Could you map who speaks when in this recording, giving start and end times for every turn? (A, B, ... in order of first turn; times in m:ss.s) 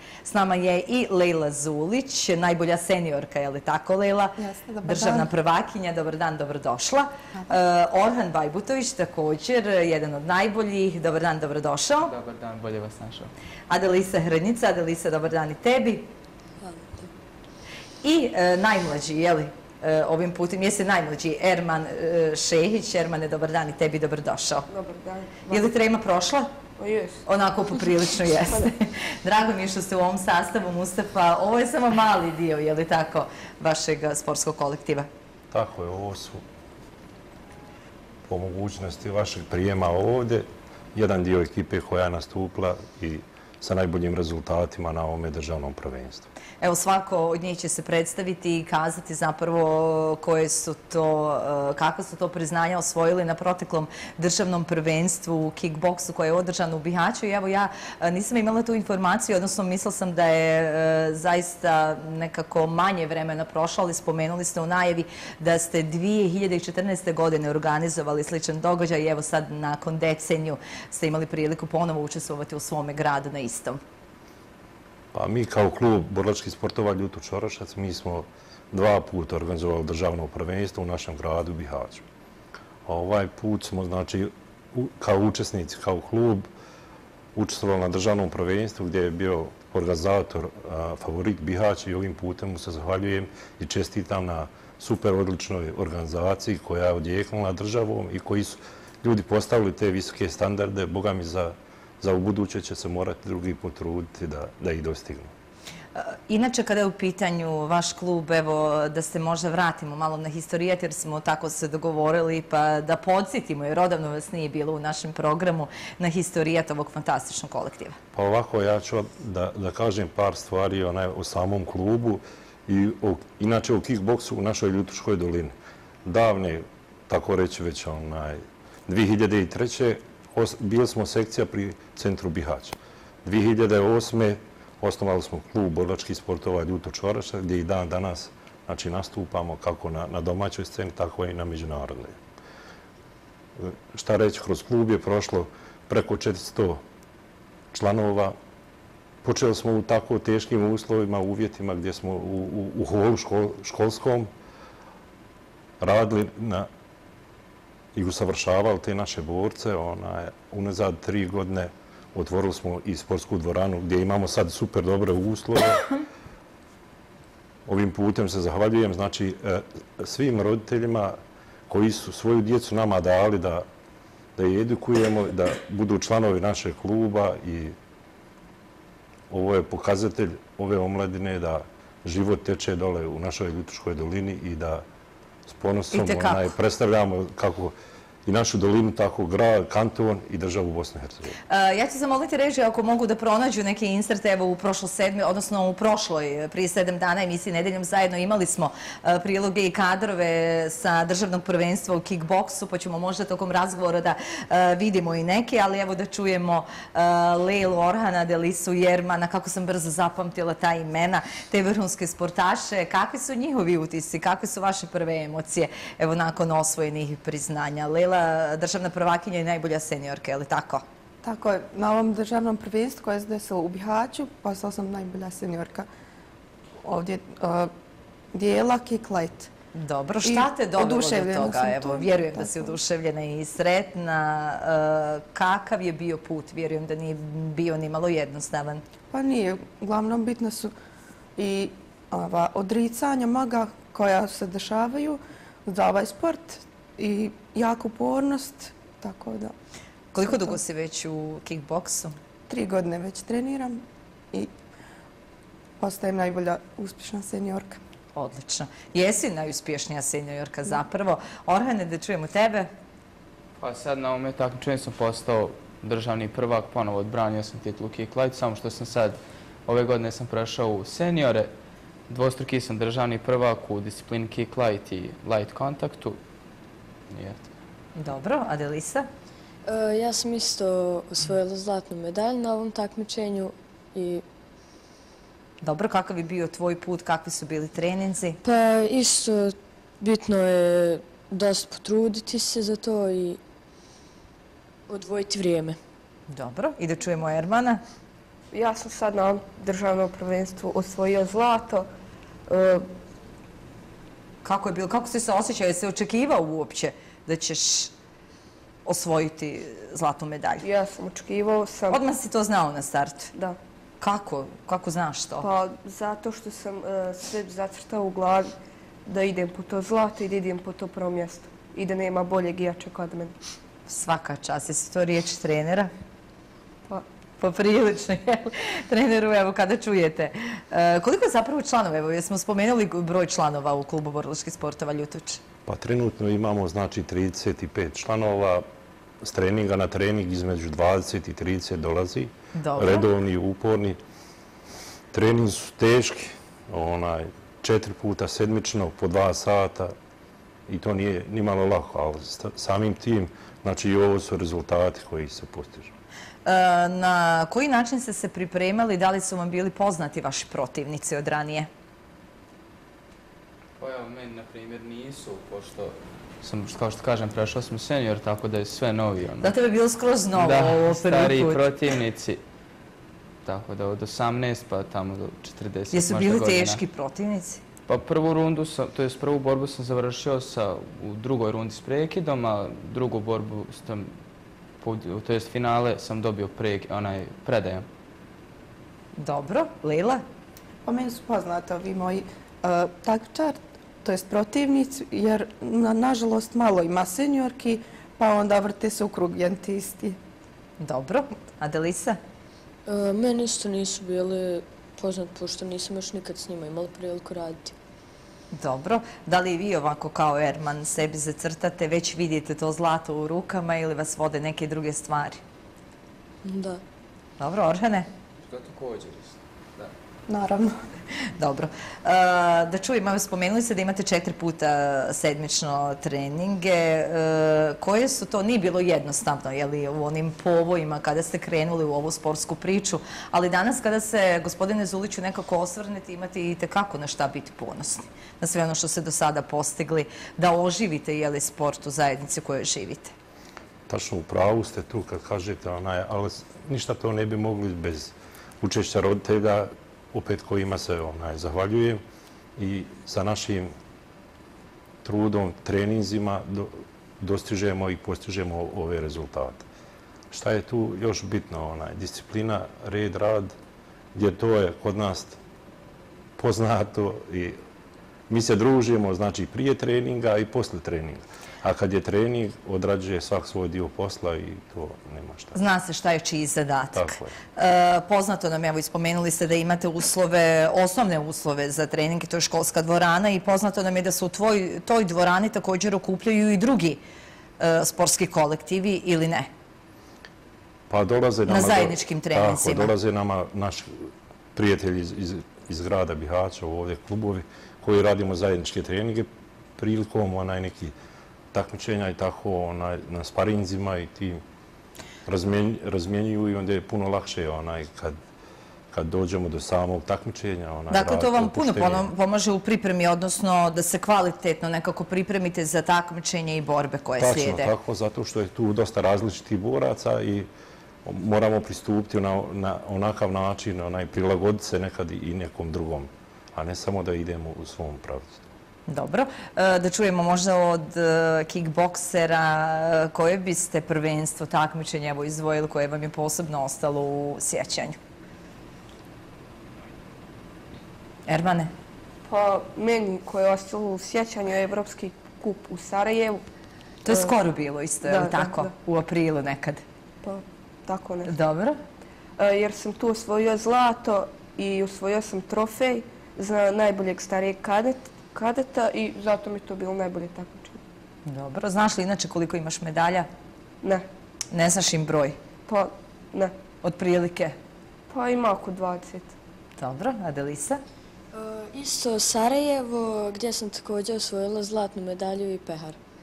0:00.2-0:12.1 A
0:04.4-0:05.3 B
0:12.1-0:13.3 C
0:13.7-0:16.1 A
0:16.6-0:17.1 D
0:18.0-0:24.7 A
0:24.7-0:25.6 E
0:25.5-0:26.5 A
0:26.8-0:27.2 E
0:27.2-0:35.1 A
0:35.5-0:36.4 F
0:38.2-0:46.3 F
0:46.6-1:13.8 A
1:15.1-1:22.0 F
1:22.8-1:26.5 F
1:27.3-1:45.3 F
1:45.9-1:58.0 A
1:58.1-2:05.5 F
2:06.0-2:22.2 F
2:23.6-2:26.8 F
2:27.7-2:28.3 F
2:29.2-2:34.3 F
2:35.8-2:36.7 F
2:37.9-2:45.9 F
2:47.6-2:51.2 F
2:51.7-2:53.6 F
2:54.4-2:57.7 F
2:59.3-3:04.8 F
3:05.5-3:07.7 F
3:05.9-3:06.5 A
3:08.2-3:11.4 F
3:11.5-3:40.8 A
3:41.2-3:45.9 B
3:46.8-3:47.7 B
3:48.3-3:49.5 B
3:49.7-3:58.8 A
3:50.2-3:52.8 B
3:59.1-4:00.7 B
4:01.4-4:09.5 B
4:10.1-4:12.2 A
4:12.5-4:13.8 B
4:15.8-4:17.8 B
4:18.1-4:22.7 A
4:23.6-4:31.5 C
4:32.1-4:36.2 C
4:37.1-4:37.5 C
4:38.0-4:39.0 A
4:39.6-4:44.2 D
4:45.6-4:48.4 A
4:48.4-4:53.4 D
4:54.9-4:55.8 D
4:56.3-4:57.8 A
4:58.5-5:01.9 E
5:02.5-5:02.9 E
5:04.4-5:07.9 A
5:08.8-5:10.6 A
5:10.6-5:12.0 E
5:11.9-5:13.3 A
5:14.0-5:15.5 A
5:15.4-5:18.5 E
5:19.0-5:23.3 E
5:23.9-5:25.9 A
5:27.4-5:35.4 A
5:35.6-5:38.6 F
5:39.2-5:44.0 F
5:42.5-5:43.1 A
5:45.1-5:49.9 F
5:50.7-5:55.9 F
5:56.4-6:01.7 A
6:03.8-6:09.5 C
6:09.4-6:11.6 A
6:10.3-6:12.4 C
6:13.4-6:16.8 C
6:15.9-6:17.6 A
6:17.9-6:24.1 C
6:24.8-6:27.8 C
6:29.2-6:30.2 A
6:30.8-6:40.2 B
6:40.8-6:42.2 A
6:42.8-6:47.7 D
6:48.5-6:55.4 A
6:56.4-6:56.8 D
6:57.4-6:58.1 A
6:58.4-6:59.9 C
7:00.3-7:00.8 B
7:01.3-7:23.1 A
7:23.9-7:32.0 F
7:32.6-7:33.7 F
7:35.0-7:39.6 F
7:40.3-7:43.5 F
7:44.1-7:45.4 F
7:46.4-7:47.6 F
7:48.3-7:55.6 F
7:55.5-8:07.0 A
7:56.9-7:57.3 F
8:07.6-8:09.5 A
8:10.9-8:20.9 F
8:11.5-8:12.9 A
8:21.5-8:24.4 F
8:25.2-8:28.2 F
8:28.9-8:32.1 F
8:30.9-8:37.7 A
8:37.2-8:40.5 F
8:41.0-8:48.4 F
8:48.9-8:58.0 A
9:01.3-9:01.7 A
9:02.2-9:06.4 E
9:07.0-9:09.8 A
9:08.0-9:08.7 E
9:10.2-9:11.3 E
9:11.3-9:11.8 A
9:12.4-9:20.8 E
9:21.2-9:23.3 A
9:24.5-9:25.4 A
9:25.7-9:26.5 E
9:26.8-9:27.5 A
9:28.1-9:29.3 E
9:29.8-9:30.8 A
9:31.3-9:36.0 D